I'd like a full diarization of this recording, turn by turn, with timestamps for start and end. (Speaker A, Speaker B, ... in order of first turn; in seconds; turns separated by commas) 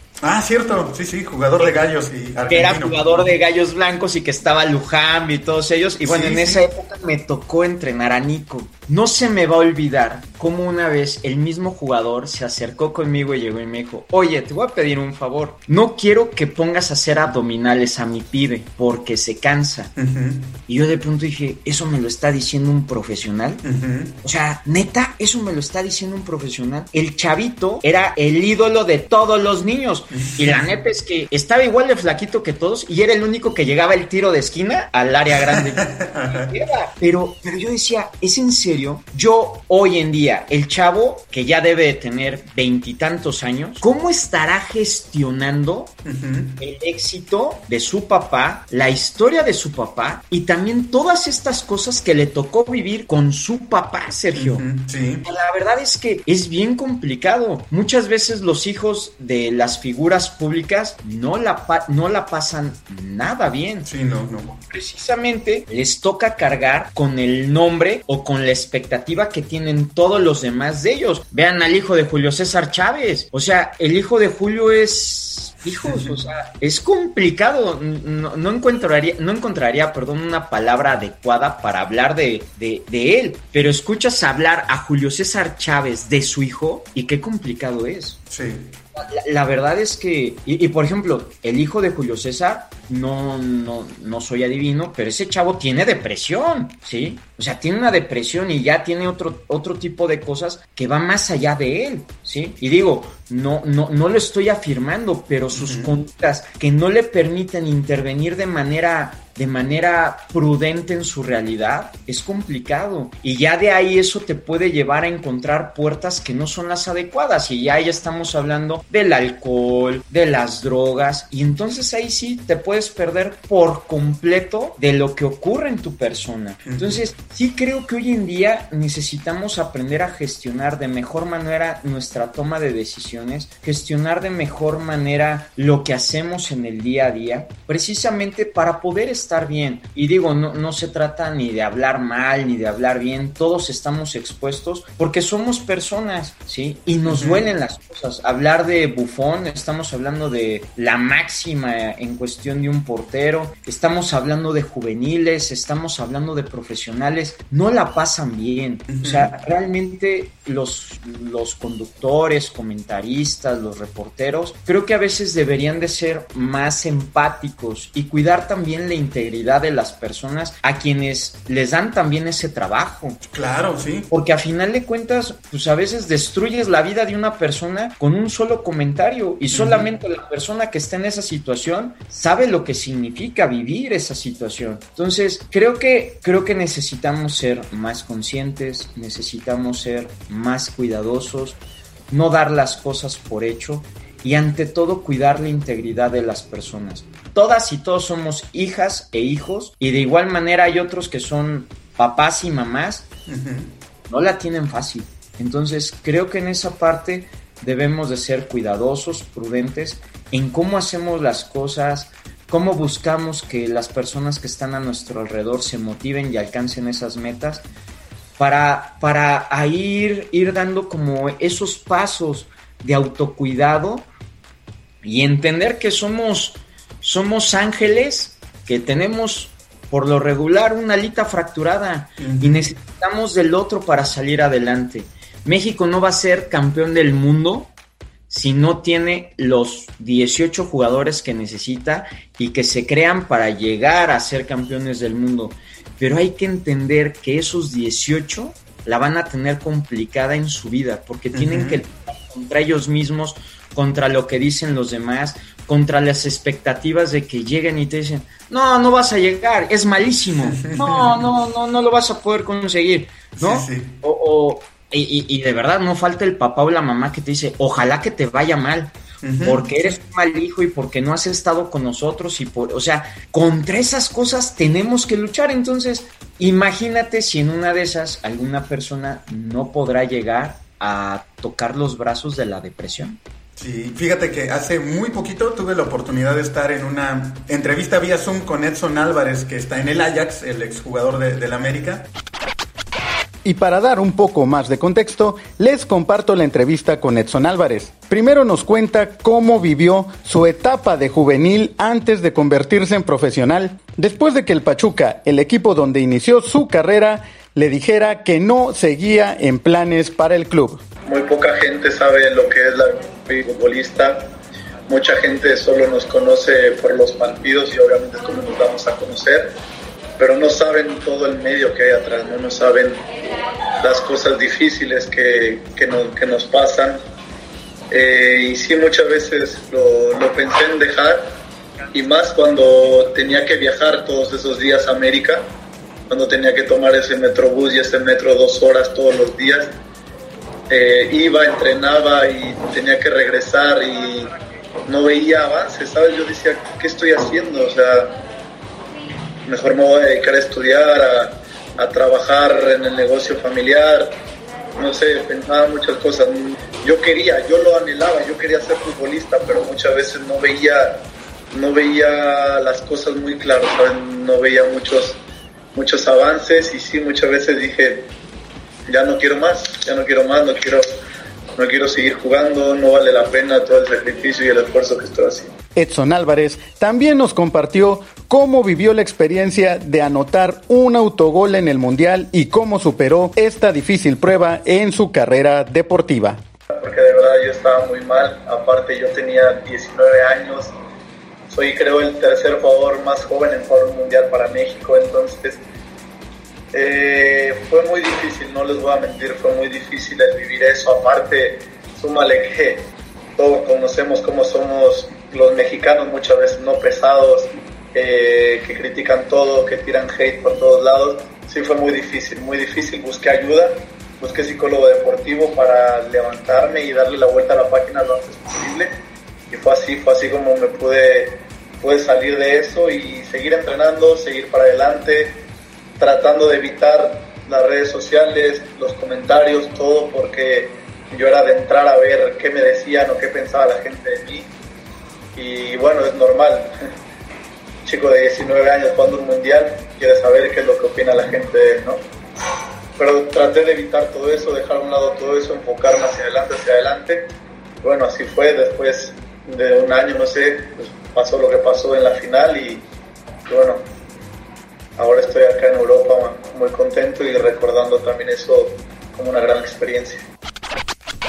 Speaker A: 0.2-3.3, Speaker B: 1.6-1.8, Speaker B: 2.5-19.9, Speaker A: 6.0-6.7, Speaker A: 20.0-20.5, Speaker B: 20.7-23.6, Speaker A: 23.6-24.1, Speaker B: 24.2-46.0, Speaker A: 30.1-30.6, Speaker A: 35.5-36.5, Speaker A: 46.0-46.6, Speaker B: 46.6-54.6, Speaker A: 54.3-55.2, Speaker B: 55.2-63.9, Speaker A: 63.9-64.5, Speaker B: 64.5-88.2, Speaker A: 75.8-76.2, Speaker A: 88.3-88.7, Speaker B: 89.0-173.2, Speaker A: 105.5-105.9, Speaker A: 126.7-127.0, Speaker A: 147.1-147.4, Speaker A: 158.9-159.3, Speaker A: 173.3-174.1, Speaker B: 174.1-191.6, Speaker A: 179.5-179.9, Speaker B: 192.1-203.1, Speaker A: 203.3-203.7, Speaker B: 204.1-217.7, Speaker B: 218.4-224.1, Speaker B: 225.0-237.7, Speaker A: 232.2-232.7, Speaker B: 238.3-283.2, Speaker A: 251.3-251.8, Speaker A: 260.4-261.3, Speaker A: 263.4-263.9, Speaker A: 269.2-270.0, Speaker A: 283.6-292.1, Speaker A: 293.4-310.8, Speaker C: 311.1-314.2, Speaker C: 314.9-319.5, Speaker C: 320.2-323.0, Speaker C: 323.8-327.0, Speaker C: 327.9-331.2, Speaker C: 331.9-335.4, Speaker C: 336.1-339.7, Speaker C: 340.7-344.3, Speaker C: 344.9-348.1, Speaker C: 349.5-354.1, Speaker C: 354.8-365.2, Speaker C: 365.8-368.1, Speaker C: 368.9-370.8, Speaker C: 371.6-375.5, Speaker A: 375.8-386.4, Speaker C: 386.7-390.7, Speaker C: 391.5-395.6, Speaker C: 396.7-418.9, Speaker C: 419.5-425.4, Speaker C: 426.0-434.5, Speaker C: 435.4-436.7, Speaker C: 437.9-442.0, Speaker C: 443.0-447.3, Speaker C: 447.8-452.8, Speaker C: 453.5-453.8, Speaker C: 455.0-460.2